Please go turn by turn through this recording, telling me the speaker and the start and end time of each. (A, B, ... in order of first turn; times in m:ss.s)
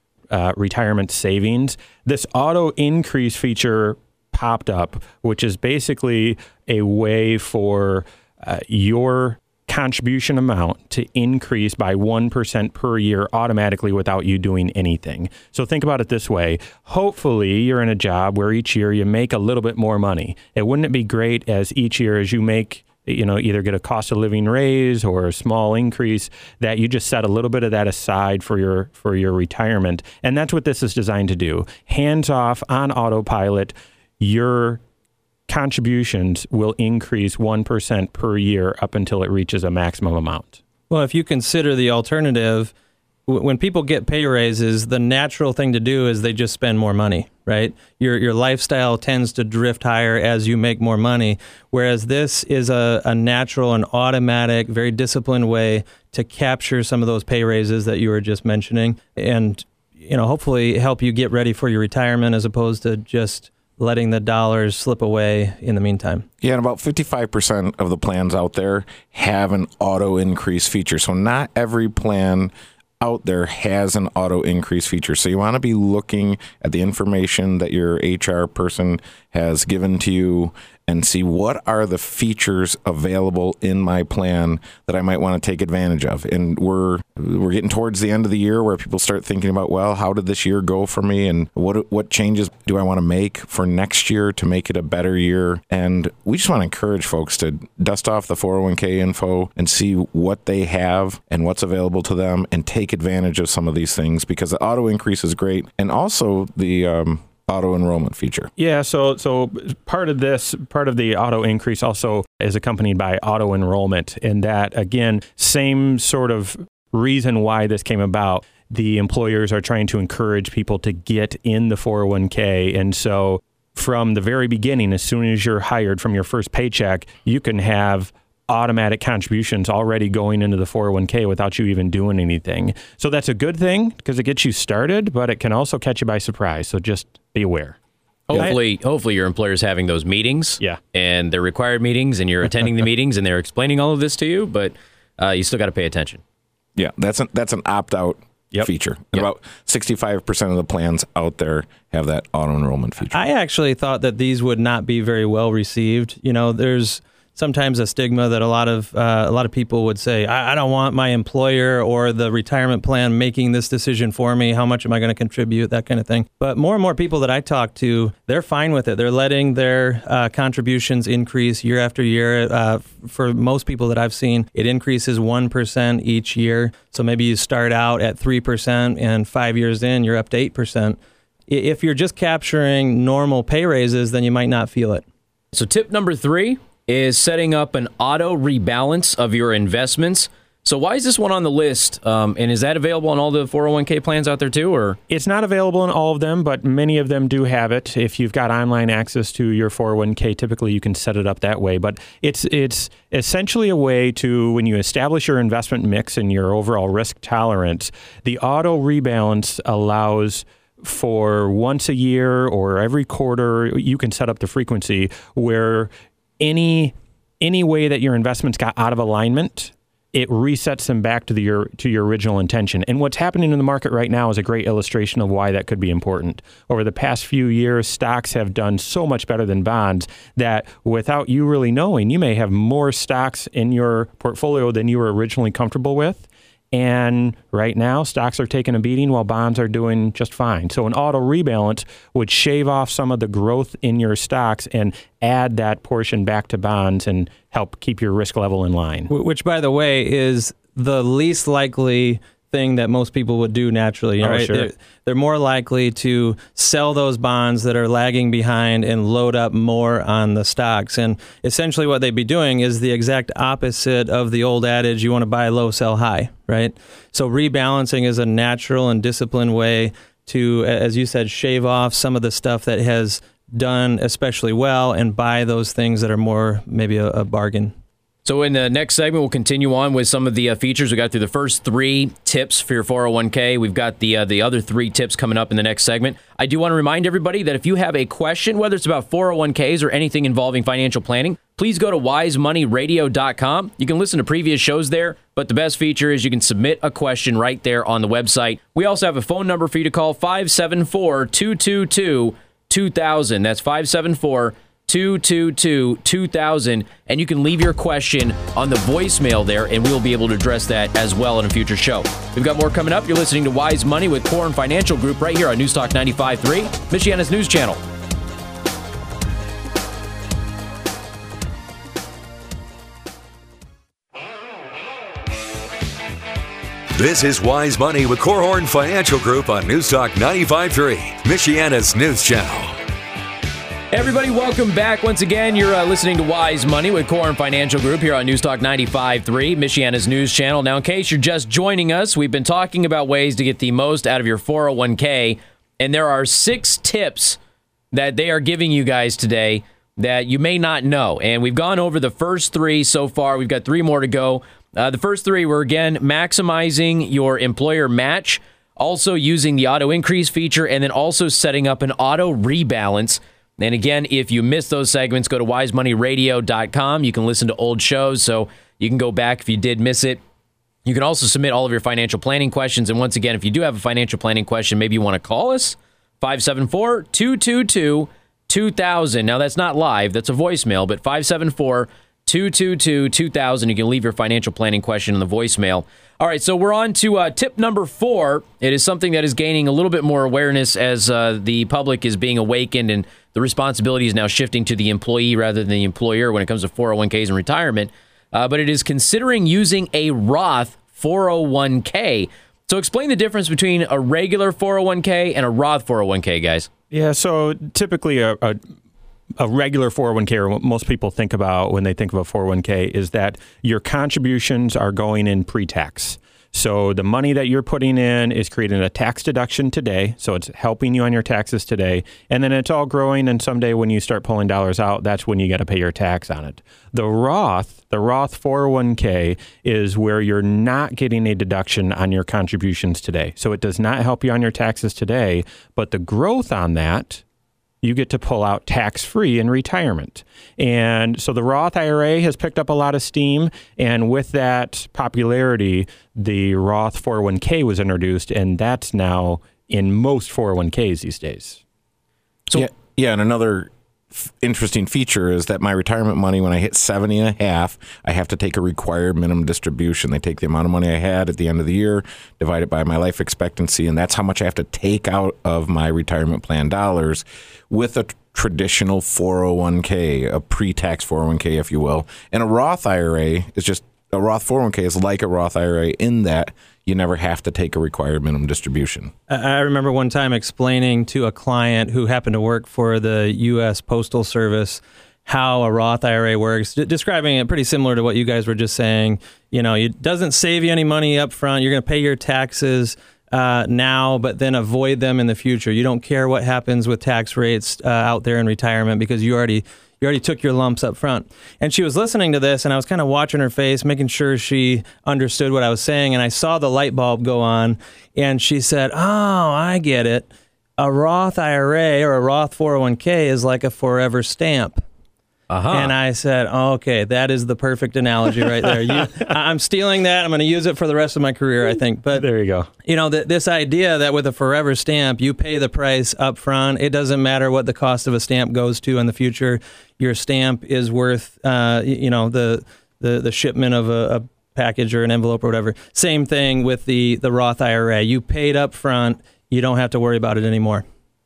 0:00.3-0:34.8 A
0:35.5-0:40.6 A
0:40.9-0:42.7 B
0:43.3-1:06.2 B
1:06.4-1:48.5 C
1:48.6-2:17.8 A
2:18.3-2:26.2 D
2:18.3-2:18.6 A
2:26.8-2:33.2 C
2:33.1-3:01.0 B
3:01.5-3:05.0 B
3:05.5-3:15.0 D
3:15.1-4:09.1 A
4:09.1-4:37.7 B
4:14.2-4:14.7 A
4:38.2-5:17.8 D
5:27.0-5:32.8 E
5:33.9-5:47.4 D
5:47.9-6:10.2 D
6:10.8-6:46.7 D
6:46.9-6:48.6 A
6:49.4-7:17.2 A
7:17.8-7:31.6 A
7:32.5-7:59.1 C
7:59.3-8:34.8 B
8:35.5-8:35.9 D
8:35.7-8:42.2 B
8:42.2-8:42.7 A
8:42.8-9:00.8 B